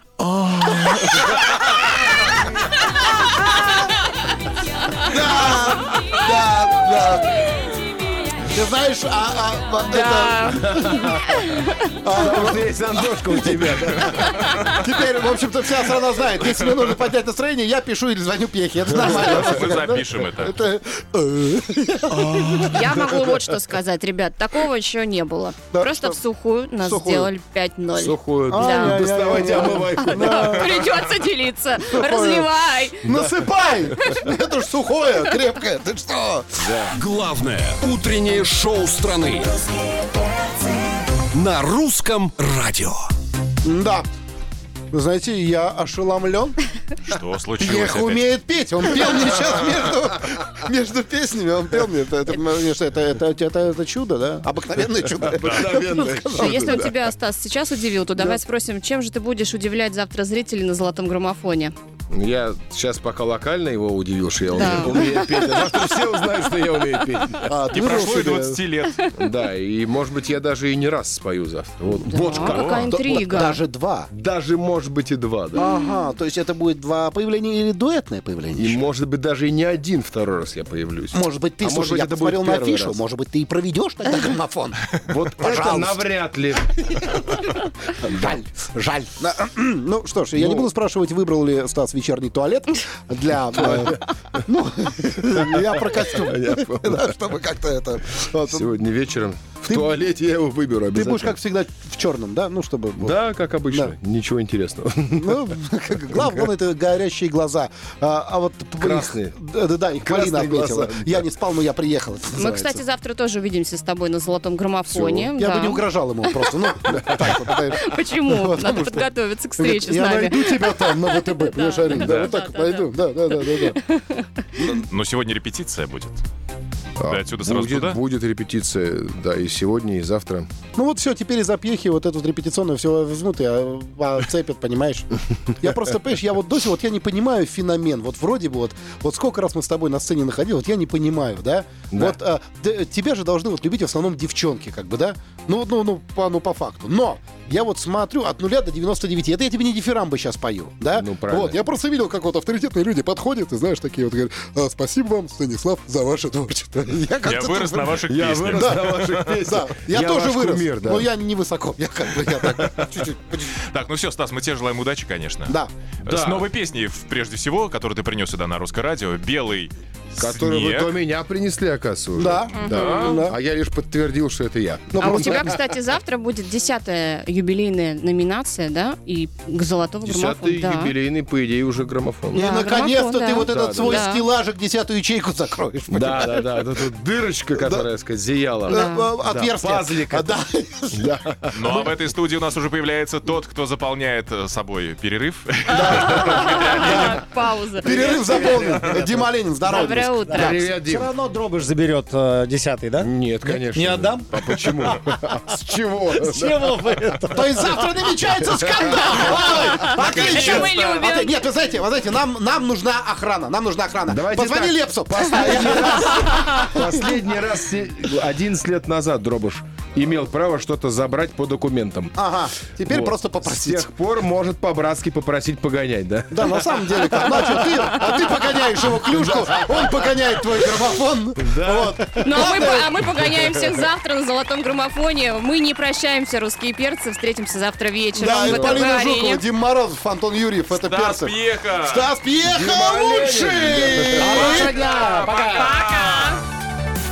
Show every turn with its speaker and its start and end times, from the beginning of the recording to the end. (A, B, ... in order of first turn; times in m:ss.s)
0:00.2-0:01.5 A
0:01.2-0:02.1 B
0:05.0-0:07.7 B
0:08.4-0:11.1 B
0:09.9-0:12.0 C
0:10.6-0:11.4 A
0:12.0-0:12.7 B
0:12.1-0:14.7 A
0:13.2-0:13.8 B
0:14.7-0:22.7 B
0:18.9-0:19.8 A
0:19.0-0:20.6 D
0:22.1-0:23.2 A
0:22.6-0:33.1 C
0:25.7-0:26.2 B
0:26.8-0:27.3 B
0:27.9-0:30.8 A
0:28.5-0:30.9 B
0:31.9-0:32.5 B
0:33.0-0:36.7 B
0:33.1-0:34.2 A
0:36.6-0:37.0 A
0:36.9-0:39.6 E
0:41.3-0:43.0 E
0:43.6-0:44.1 B
0:44.9-0:46.6 B
0:47.0-0:48.3 D
0:47.6-0:56.8 B
0:55.0-0:57.0 A
0:55.4-0:55.7 D
0:56.3-1:01.7 C
1:02.1-1:07.6 A
1:04.5-1:05.6 C
1:07.4-1:08.6 B
1:07.7-1:09.0 D
1:09.1-1:13.6 A
1:12.0-1:13.6 C
1:12.4-1:12.9 D
1:12.9-1:14.1 B
1:14.1-1:15.7 A
1:15.6-1:18.8 B
1:15.6-1:16.0 C
1:18.6-1:23.0 A
1:21.1-1:26.1 B
1:25.1-1:26.9 A
1:26.9-1:27.5 B
1:28.0-1:38.7 B
1:28.0-1:28.4 A
1:30.4-1:30.7 A
1:33.5-1:34.0 A
1:35.2-1:37.1 A
1:38.4-1:41.4 A
1:39.7-1:39.9 B
1:40.9-1:43.2 B
1:43.0-1:45.6 A
1:45.2-1:52.8 B
1:46.1-1:46.5 A
1:48.8-1:49.4 A
1:50.0-1:51.3 A
1:52.4-2:04.3 C
1:54.9-1:55.3 A
1:55.4-2:03.8 B
2:01.9-2:02.3 A
2:04.6-2:04.9 B
2:04.8-2:06.2 D
2:07.0-2:10.5 A
2:07.0-2:08.0 D
2:10.8-2:43.6 B
2:21.9-2:22.2 A
2:30.9-2:31.6 A
2:37.2-2:39.3 D
2:38.1-2:41.1 A
2:42.3-2:43.1 A
2:43.6-2:50.9 D
2:46.0-2:46.5 A
2:50.2-2:55.6 A
2:52.2-2:53.4 B
2:52.5-2:53.2 C
2:54.9-2:55.6 B
2:55.0-3:01.0 C
3:00.0-3:02.5 A
3:02.3-3:04.2 C
3:02.3-3:06.6 B
3:03.4-3:04.1 A
3:05.9-3:10.4 A
3:07.6-3:07.9 B
3:08.7-3:09.1 C
3:08.7-3:11.1 B
3:10.9-3:11.9 A
3:11.5-3:16.3 D
3:15.7-3:17.2 B
3:15.9-3:16.7 A
3:15.9-3:18.2 C
3:17.8-3:20.7 B
3:17.9-3:19.3 F
3:18.7-3:19.0 D
3:19.6-3:20.6 C
3:20.3-3:25.4 F
3:20.5-3:21.1 A
3:23.0-3:27.2 A
3:26.1-3:28.1 F
3:27.3-3:37.1 B
3:28.4-3:30.8 A
3:29.4-3:31.4 C
3:34.1-3:42.2 A
3:36.3-3:36.7 C
3:42.2-3:43.9 B
3:42.8-3:50.1 A
3:46.3-3:52.9 B
3:51.4-3:53.8 A
3:52.2-3:59.4 C
3:58.2-4:05.3 B
3:58.3-3:58.9 A
4:00.7-4:02.1 D
4:02.4-4:04.7 A
4:04.2-4:06.4 D
4:04.3-4:05.3 F
4:04.4-4:06.4 C